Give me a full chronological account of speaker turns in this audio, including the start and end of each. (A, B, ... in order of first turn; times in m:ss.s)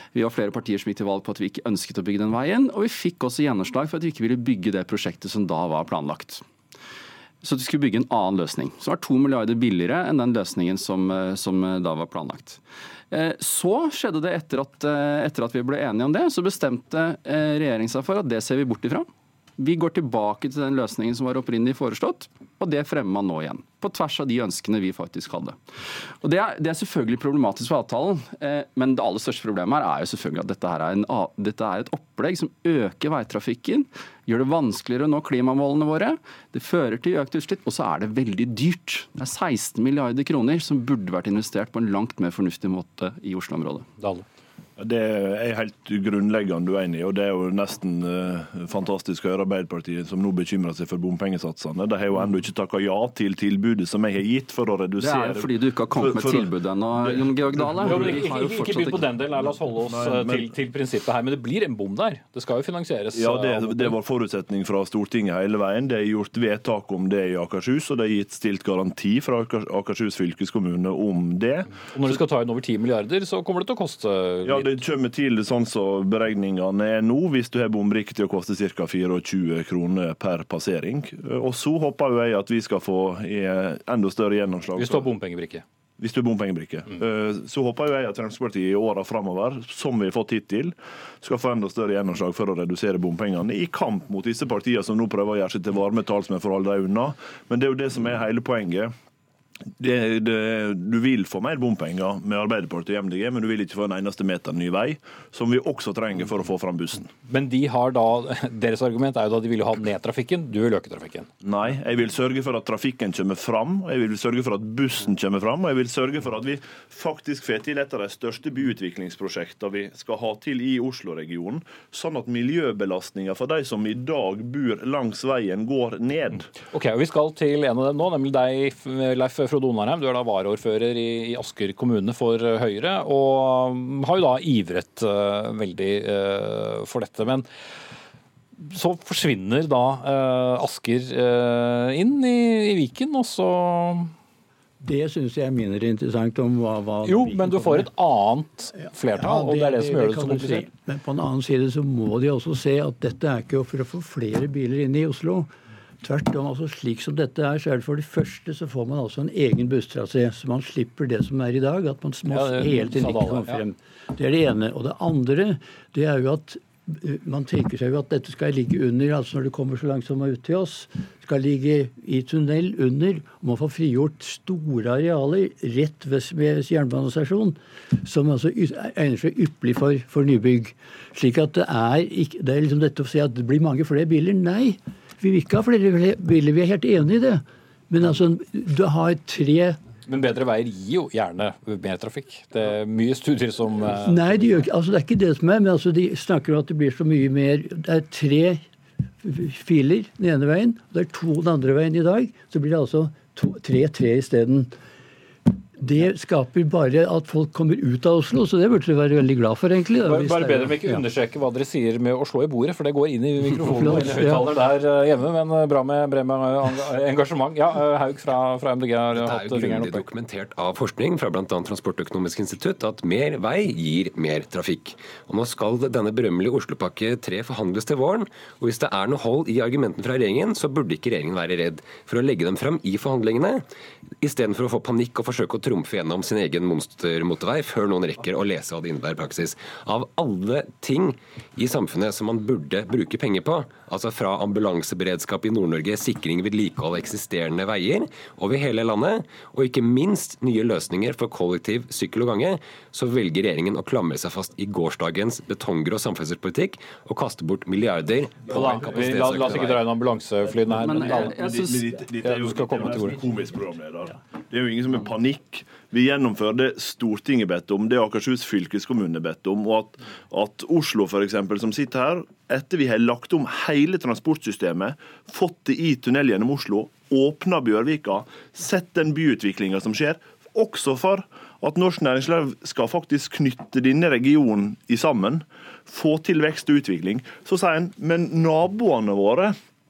0:00.1-0:06.4 A
0:07.4-0:12.6 A
0:13.1-0:25.6 A
0:26.2-0:43.9 A
0:44.0-0:44.2 B
0:44.8-0:58.3 C
0:55.0-0:59.1 A
0:57.8-1:04.0 B
0:59.8-1:00.5 C
1:03.2-1:12.2 C
1:11.9-1:14.8 B
1:14.4-1:25.1 C
1:24.8-1:25.6 B
1:26.0-1:38.9 C
1:39.8-1:47.1 C
1:47.3-1:51.3 B
1:51.4-2:06.5 C
2:06.7-2:17.5 B
2:18.6-2:24.1 B
2:24.8-2:27.9 D
2:27.0-2:30.7 B
2:28.8-3:09.8 D
2:42.3-2:43.6 B
3:10.1-3:14.2 B
3:14.0-3:18.6 D
3:19.2-3:24.7 D
3:25.8-3:31.0 D
3:30.0-3:40.0 B
3:33.6-3:34.5 D
3:39.1-3:53.6 E
3:54.2-4:19.9 E
4:18.5-4:21.4 B
4:20.8-4:21.9 A
4:20.8-4:49.6 C
4:22.2-4:23.2 B